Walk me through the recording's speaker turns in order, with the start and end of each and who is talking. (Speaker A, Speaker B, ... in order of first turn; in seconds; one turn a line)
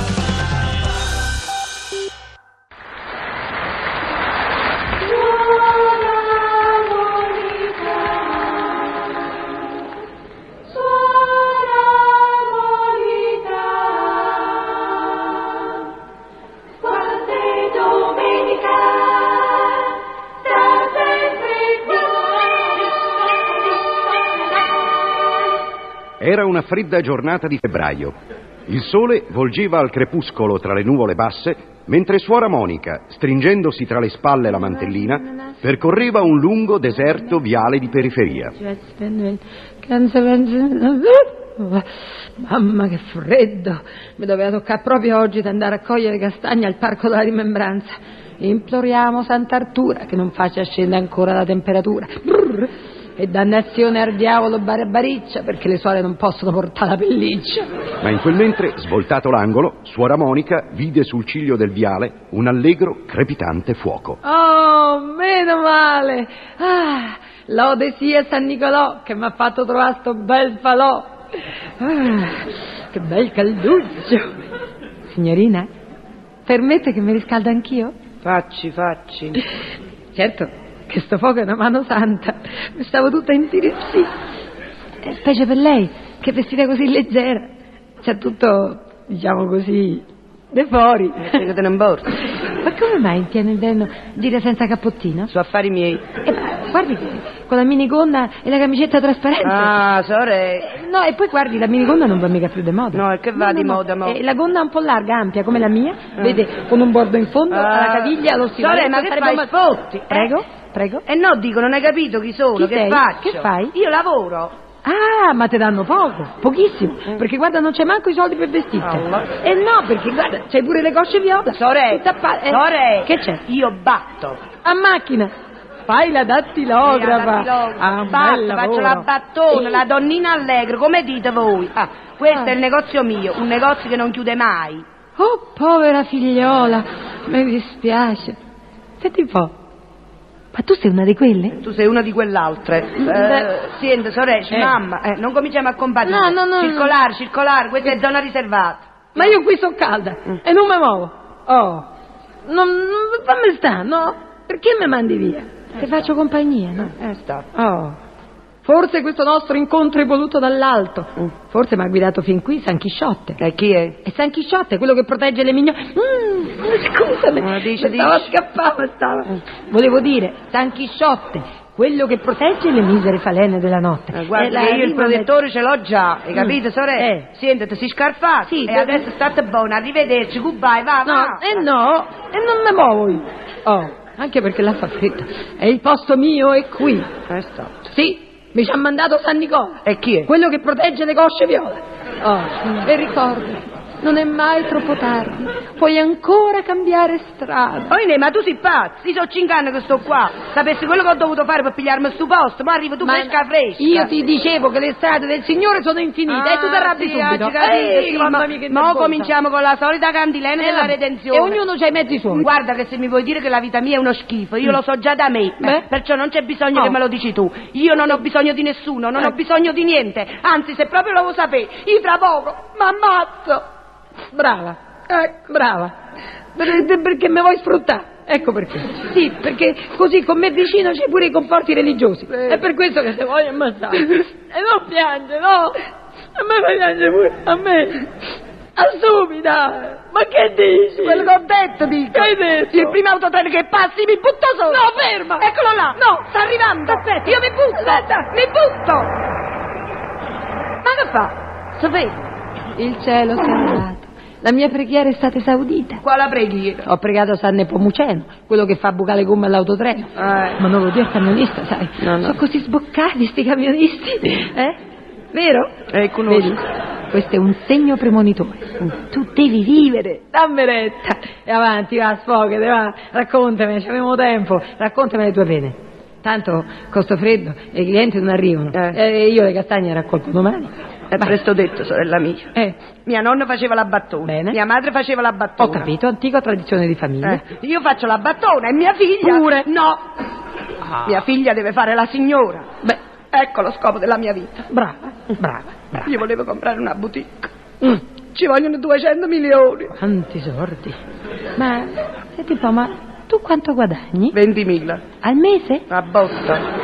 Speaker A: 5.5-8.2
Speaker A: 10.8-15.2
Speaker A: 16.9-19.6
Speaker A: 20.5-22.6
Speaker B: 26.2-28.1
Speaker B: 28.7-38.5
Speaker A: 38.6-57.7
Speaker B: 58.0-64.2
Speaker A: 64.2-71.1
Speaker A: 71.8-74.3
Speaker A: 75.0-75.7
Speaker A: 76.5-77.9
Speaker C: 78.2-79.4
Speaker A: 80.1-84.1
Speaker A: 85.0-87.5
Speaker A: 88.0-91.4
Speaker C: 91.2-92.1
Speaker A: 92.6-95.3
Speaker C: 95.3-96.0
Speaker A: 96.2-99.8
Speaker C: 99.4-100.7
Speaker A: 100.6-109.5
Speaker C: 102.9-104.2
Speaker C: 107.5-110.4
Speaker A: 110.1-111.0
Speaker C: 111.1-114.5
Speaker A: 112.5-113.7
Speaker A: 114.8-123.4
Speaker C: 118.8-119.4
Speaker C: 121.5-124.4
Speaker A: 124.6-125.3
Speaker A: 125.9-129.8
Speaker C: 126.8-134.8
Speaker A: 135.2-138.4
Speaker A: 139.0-139.5
Speaker A: 140.5-141.6
Speaker C: 141.6-149.3
Speaker A: 143.0-143.5
Speaker A: 144.5-144.8
Speaker A: 146.0-146.9
Speaker A: 149.1-151.8
Speaker A: 152.4-156.9
Speaker C: 157.0-157.5
Speaker A: 157.5-158.0
Speaker A: 158.6-163.4
Speaker C: 163.4-164.0
Speaker A: 164.0-175.3
Speaker C: 167.4-168.3
Speaker C: 174.1-181.7
Speaker A: 176.3-177.3
Speaker A: 178.4-179.0
Speaker A: 181.0-187.1
Speaker C: 187.3-187.8
Speaker A: 187.9-197.9
Speaker C: 189.8-190.3
Speaker C: 197.9-204.1
Speaker A: 203.0-209.3
Speaker C: 206.3-211.6
Speaker A: 210.6-212.5
Speaker C: 212.3-223.6
Speaker A: 224.3-225.9
Speaker A: 226.5-235.8
Speaker C: 232.3-232.6
Speaker A: 236.3-238.1
Speaker A: 238.8-241.3
Speaker C: 241.0-244.9
Speaker A: 242.1-243.0
Speaker A: 244.6-248.0
Speaker C: 245.4-249.1
Speaker C: 250.8-252.2
Speaker A: 252.8-256.0
Speaker C: 256.0-256.8
Speaker A: 256.8-264.8
Speaker C: 260.2-260.6
Speaker C: 262.0-262.4
Speaker A: 265.3-265.7
Speaker C: 265.9-266.6
Speaker A: 266.3-280.7
Speaker C: 281.1-282.5
Speaker C: 283.1-285.9
Speaker A: 284.2-284.6
Speaker A: 285.6-287.4
Speaker C: 287.2-290.0
Speaker A: 289.2-289.7
Speaker C: 291.0-292.7
Speaker C: 293.3-294.6
Speaker A: 294.7-296.2
Speaker C: 296.1-299.9
Speaker A: 299.9-300.9
Speaker A: 301.6-304.4
Speaker C: 304.3-305.0
Speaker A: 305.2-305.8
Speaker C: 305.9-306.6